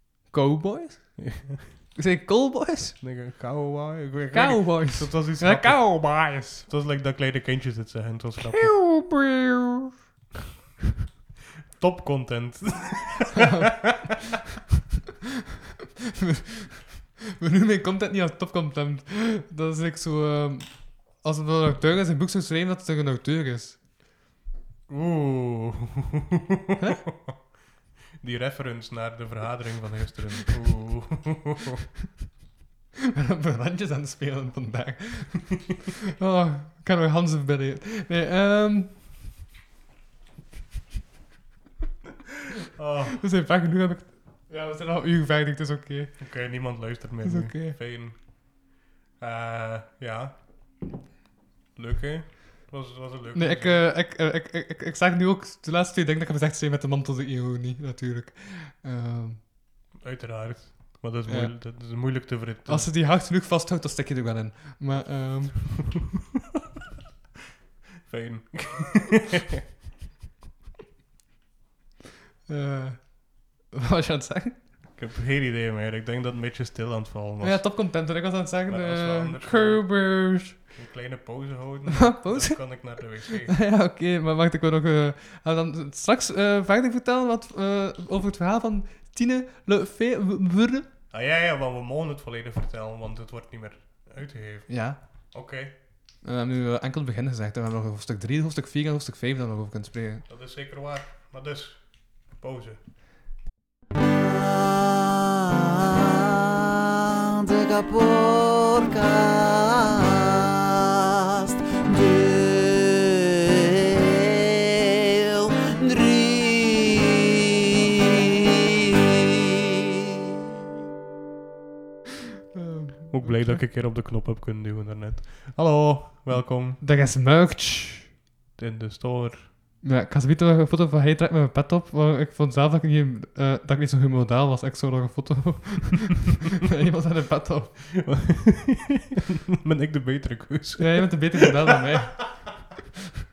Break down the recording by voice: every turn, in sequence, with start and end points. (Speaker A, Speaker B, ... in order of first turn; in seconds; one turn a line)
Speaker A: 0.3-3.0
Speaker B: 1.2-1.7
Speaker B: 3.0-8.8
Speaker A: 4.3-6.7
Speaker A: 8.5-9.9
Speaker B: 11.8-14.1
Speaker A: 13.4-13.7
Speaker A: 16.3-23.8
Speaker B: 24.9-27.4
Speaker B: 28.2-31.7
Speaker A: 33.1-39.0
Speaker B: 42.8-43.2
Speaker A: 43.2-46.5
Speaker B: 46.2-50.8
Speaker A: 47.2-47.8
Speaker B: 51.8-53.8
Speaker A: 53.3-59.4
Speaker B: 60.0-62.9
Speaker A: 61.3-66.0
Speaker B: 68.0-69.5
Speaker A: 72.5-74.6
Speaker B: 75.0-77.9
Speaker A: 77.4-80.6
Speaker B: 78.7-83.5
Speaker A: 82.0-90.9
Speaker B: 91.1-95.8
Speaker A: 94.7-100.2
Speaker B: 100.3-102.8
Speaker C: 104.2-104.9
Speaker C: 107.4-110.5
Speaker C: 111.5-114.5
Speaker C: 115.6-117.2
Speaker C: 118.0-118.4
Speaker A: 122.5-123.6
Speaker B: 123.1-126.8
Speaker A: 126.8-128.1
Speaker B: 128.6-129.5
Speaker A: 129.8-138.0
Speaker B: 137.9-139.0
Speaker B: 139.6-141.5
Speaker A: 140.8-142.5